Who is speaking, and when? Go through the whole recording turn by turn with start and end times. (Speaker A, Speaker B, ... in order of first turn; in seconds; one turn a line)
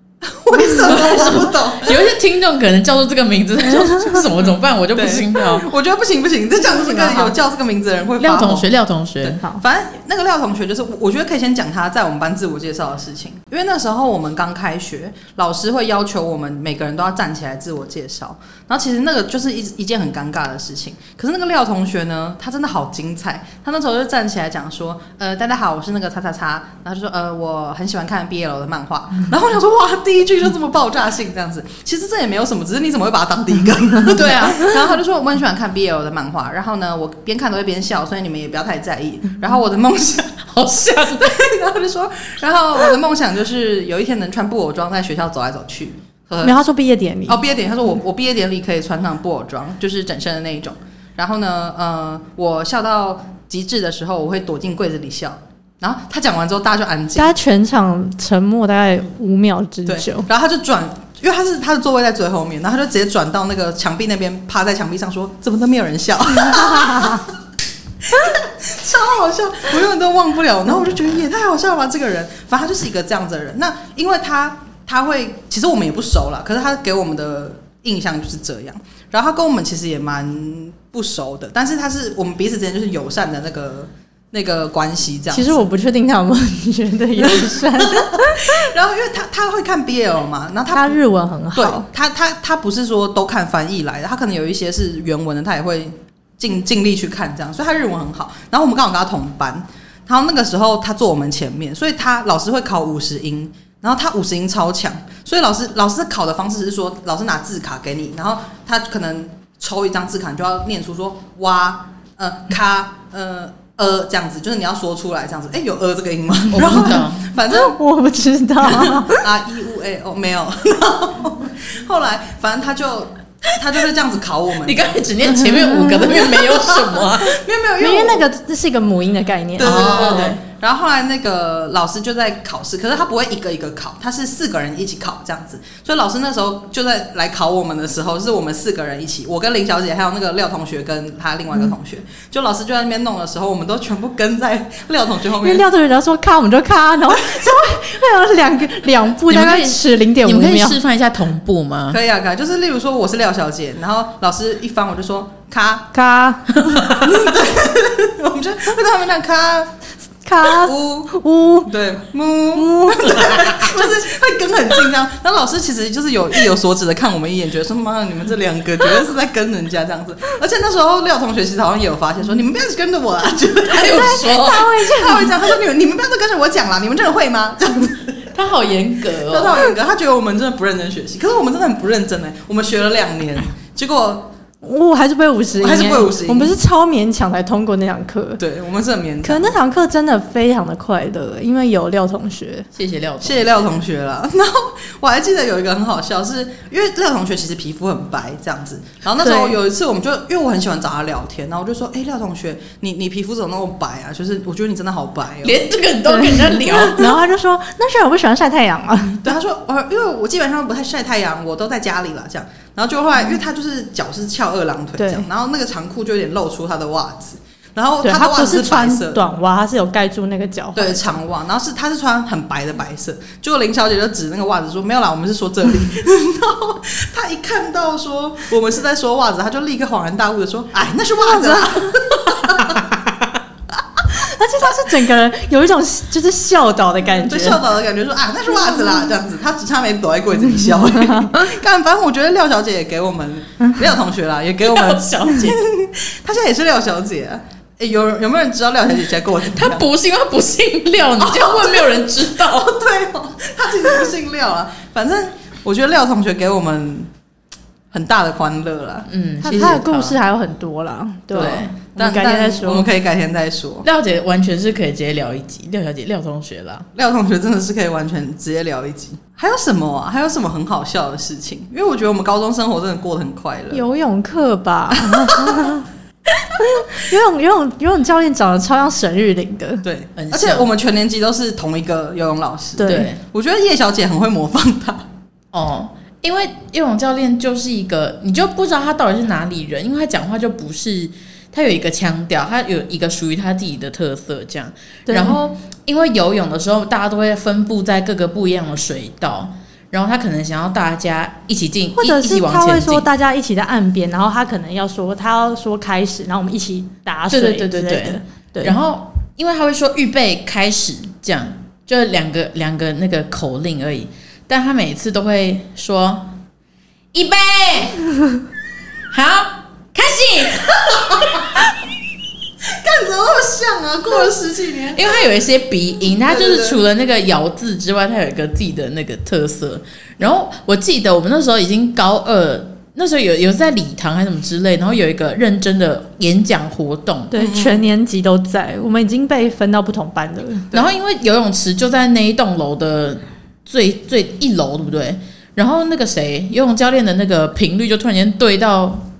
Speaker A: 0.2-2.0
Speaker B: 0.5-1.3
Speaker C: 0.9-5.7
Speaker A: 4.9-8.7
Speaker B: 6.6-7.3
Speaker C: 8.2-9.4
Speaker A: 9.2-40.4
Speaker C: 40.5-41.5
Speaker A: 41.2-46.6
Speaker B: 46.4-47.4
Speaker A: 47.3-57.3
Speaker B: 57.1-60.3
Speaker A: 59.9-67.3
Speaker B: 66.5-67.2
Speaker A: 68.0-85.7
Speaker B: 85.3-88.6
Speaker A: 87.2-91.0
Speaker B: 90.7-91.8
Speaker A: 91.5-117.8
Speaker C: 116.5-117.3
Speaker B: 117.5-119.2
Speaker A: 118.6-125.0
Speaker C: 124.6-127.4
Speaker A: 125.5-128.2
Speaker B: 125.7-126.0
Speaker B: 127.8-130.4
Speaker A: 129.6-145.7
Speaker C: 129.6-130.4
Speaker B: 145.4-150.8
Speaker C: 149.3-152.0
Speaker A: 151.9-155.9
Speaker B: 155.9-156.9
Speaker A: 156.8-159.7
Speaker B: 160.2-161.7
Speaker A: 160.4-161.1
Speaker A: 161.7-178.3
Speaker B: 162.5-164.0
Speaker C: 173.7-174.7
Speaker B: 173.7-175.4
Speaker C: 178.3-179.6
Speaker A: 179.3-184.3
Speaker B: 184.6-188.4
Speaker A: 185.6-186.5
Speaker A: 188.4-189.5
Speaker B: 189.2-192.7
Speaker C: 192.7-193.8
Speaker A: 193.2-205.7
Speaker B: 199.2-199.6
Speaker C: 205.4-207.2
Speaker B: 206.0-209.3
Speaker A: 209.2-219.2
Speaker B: 215.0-215.2
Speaker B: 218.0-221.2
Speaker A: 220.8-232.9
Speaker B: 231.3-232.9
Speaker B: 234.0-237.6
Speaker A: 237.3-249.8
Speaker B: 240.8-241.3
Speaker C: 244.8-245.6
Speaker C: 249.4-252.8
Speaker A: 251.2-257.1
Speaker A: 257.9-259.7
Speaker C: 259.1-260.2
Speaker B: 259.4-262.9
Speaker C: 261.3-261.7
Speaker A: 261.4-263.9
Speaker C: 263.8-266.9
Speaker A: 266.9-273.8
Speaker B: 273.7-275.9
Speaker A: 275.1-275.7
Speaker B: 276.6-279.8
Speaker A: 279.8-285.0
Speaker C: 280.1-280.7
Speaker B: 282.8-283.1
Speaker C: 282.9-283.2
Speaker C: 285.5-303.1
Speaker B: 295.1-295.4
Speaker B: 301.9-308.8
Speaker C: 307.3-316.3
Speaker C: 317.1-318.0
Speaker C: 319.1-321.3
Speaker A: 320.8-321.6
Speaker A: 322.6-325.2
Speaker C: 324.9-337.3
Speaker A: 326.2-326.8
Speaker B: 337.3-340.7
Speaker A: 337.4-337.8
Speaker C: 340.7-349.1